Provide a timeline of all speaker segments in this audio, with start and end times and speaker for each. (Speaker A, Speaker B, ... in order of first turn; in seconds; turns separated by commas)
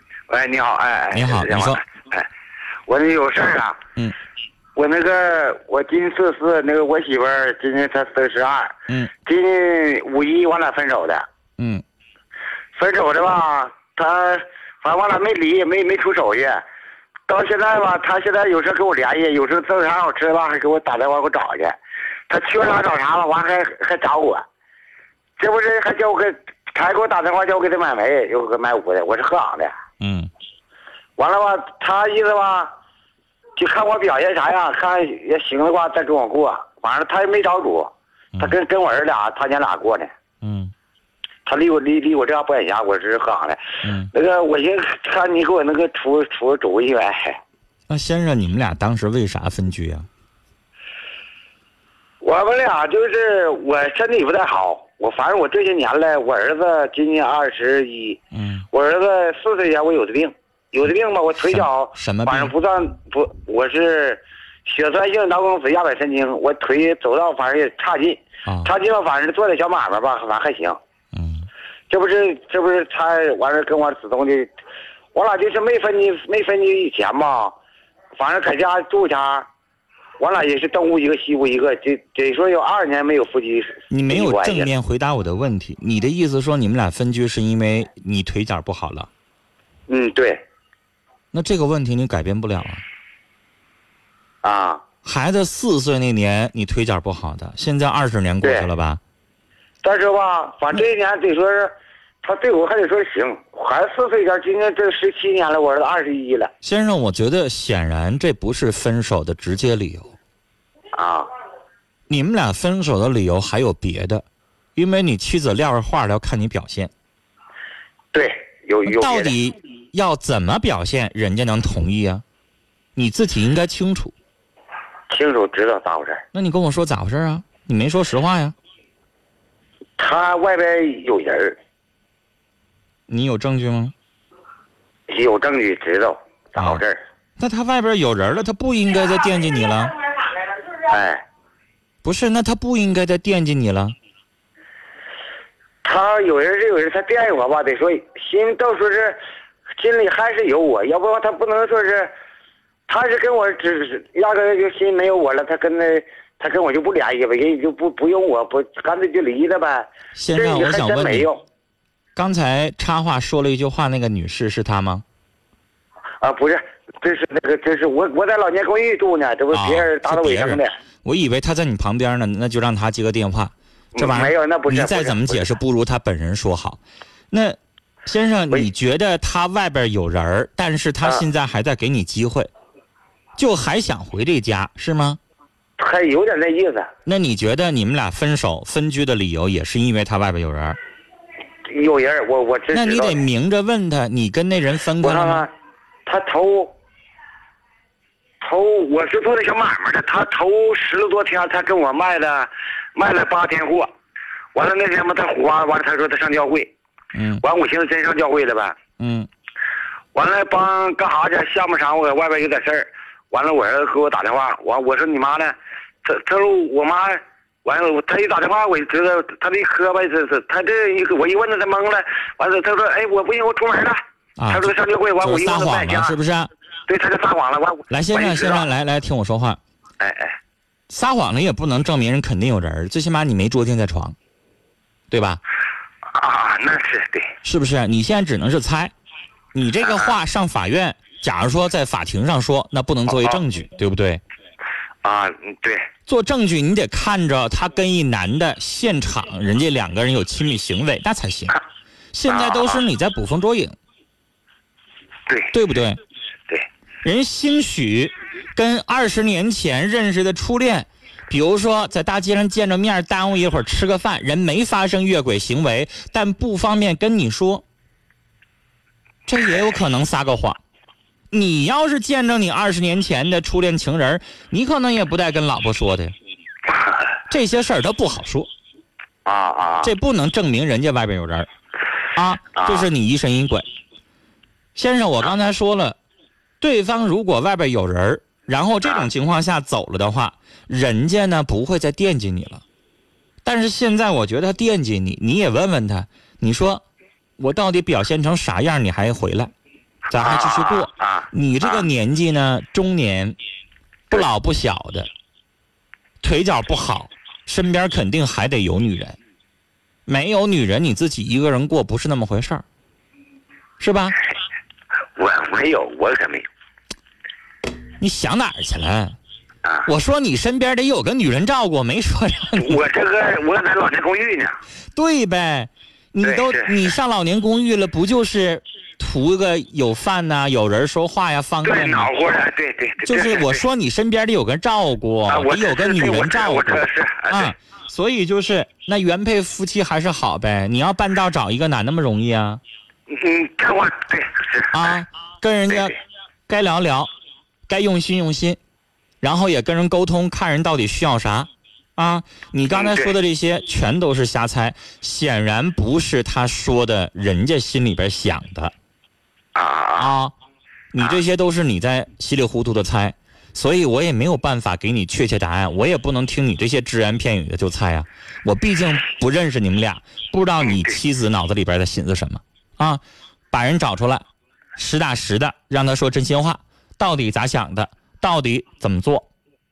Speaker A: 0.3-2.3, Speaker B: 1.1-1.8, Speaker A: 2.9-3.8, Speaker A: 4.8-11.2, Speaker B: 11.6-11.8, Speaker A: 12.8-16.6, Speaker A: 17.3-21.8, Speaker A: 22.3-24.4, Speaker A: 25.4-29.7, Speaker B: 30.0-30.3, Speaker A: 31.2-32.7, Speaker A: 33.5-40.1, Speaker B: 40.4-40.7, Speaker A: 41.5-43.6, Speaker B: 43.8-44.1, Speaker A: 44.1-47.4, Speaker B: 47.9-50.1, Speaker A: 52.2-58.2, Speaker B: 58.3-58.6, Speaker A: 58.7-70.8, Speaker B: 61.5-62.5, Speaker B: 68.4-68.7, Speaker B: 71.1-71.5, Speaker A: 71.9-74.5, Speaker A: 75.1-77.5, Speaker A: 78.2-79.5, Speaker A: 80.2-84.7, Speaker B: 83.9-89.1, Speaker A: 89.9-90.4, Speaker B: 91.3-92.8, Speaker A: 94.4-94.8, Speaker B: 95.0-99.0, Speaker A: 98.4-98.7, Speaker A: 99.8-106.5, Speaker B: 106.6-110.1, Speaker A: 110.9-111.3, Speaker B: 112.1-114.2, Speaker B: 114.8-116.9, Speaker A: 118.1-119.3, Speaker B: 118.8-122.2, Speaker B: 123.0-124.1, Speaker A: 125.1-126.2, Speaker B: 126.3-128.5, Speaker A: 130.0-131.6, Speaker B: 133.1-133.9, Speaker A: 135.1-137.0, Speaker B: 136.6-136.8, Speaker B: 137.4-139.9, Speaker A: 140.7-141.2, Speaker B: 142.0-143.9, Speaker A: 145.8-149.2, Speaker A: 149.8-152.1, Speaker A: 152.9-161.4, Speaker B: 160.1-161.3, Speaker B: 162.2-165.0, Speaker A: 166.2-170.7, Speaker B: 169.5-176.8, Speaker A: 173.9-175.5, Speaker B: 177.3-182.5, Speaker B: 183.4-185.2, Speaker A: 185.8-186.9, Speaker B: 187.1-190.8, Speaker A: 191.7-193.2, Speaker B: 192.7-195.5, Speaker A: 195.0-195.5, Speaker A: 196.1-196.7, Speaker A: 198.4-203.9, Speaker A: 204.5-206.7, Speaker B: 207.1-207.4, Speaker A: 207.4-208.8, Speaker B: 209.0-209.3, Speaker A: 210.1-226.2, Speaker B: 224.4-226.5, Speaker A: 226.9-228.7, Speaker B: 227.9-229.6, Speaker A: 230.0-230.3, Speaker B: 230.9-234.2, Speaker B: 235.1-235.4, Speaker A: 236.1-237.3, Speaker B: 237.4-238.9, Speaker B: 239.5-244.2, Speaker A: 239.8-240.1, Speaker A: 243.1-243.4, Speaker A: 245.0-245.8, Speaker B: 246.1-251.6, Speaker B: 252.1-253.8, Speaker A: 252.3-252.8, Speaker A: 255.3-255.5, Speaker B: 255.5-256.0, Speaker B: 257.0-267.6, Speaker B: 269.3-270.6, Speaker B: 271.3-276.1, Speaker B: 277.3-278.5, Speaker A: 279.2-279.9, Speaker B: 279.8-281.5, Speaker B: 282.1-283.6, Speaker A: 282.6-282.9, Speaker B: 284.7-286.0, Speaker B: 286.6-292.6, Speaker B: 293.4-296.8, Speaker B: 297.4-299.5, Speaker B: 300.1-303.4, Speaker A: 300.1-301.9, Speaker B: 304.1-305.1, Speaker B: 306.2-309.2, Speaker B: 310.1-312.6, Speaker B: 313.8-314.2, Speaker A: 315.2-316.4, Speaker B: 318.0-319.1, Speaker B: 319.9-322.8, Speaker A: 322.6-324.6, Speaker B: 324.9-332.1, Speaker A: 326.2-326.8, Speaker A: 331.6-333.6, Speaker B: 333.0-342.6, Speaker A: 335.3-337.5, Speaker A: 343.1-345.0, Speaker B: 344.7-346.0, Speaker B: 346.5-347.1, Speaker B: 347.7-348.6, Speaker B: 349.2-358.7, Speaker A: 352.7-353.1, Speaker A: 359.5-360.1, Speaker B: 360.0-360.3, Speaker B: 360.9-374.2, Speaker B: 374.8-379.3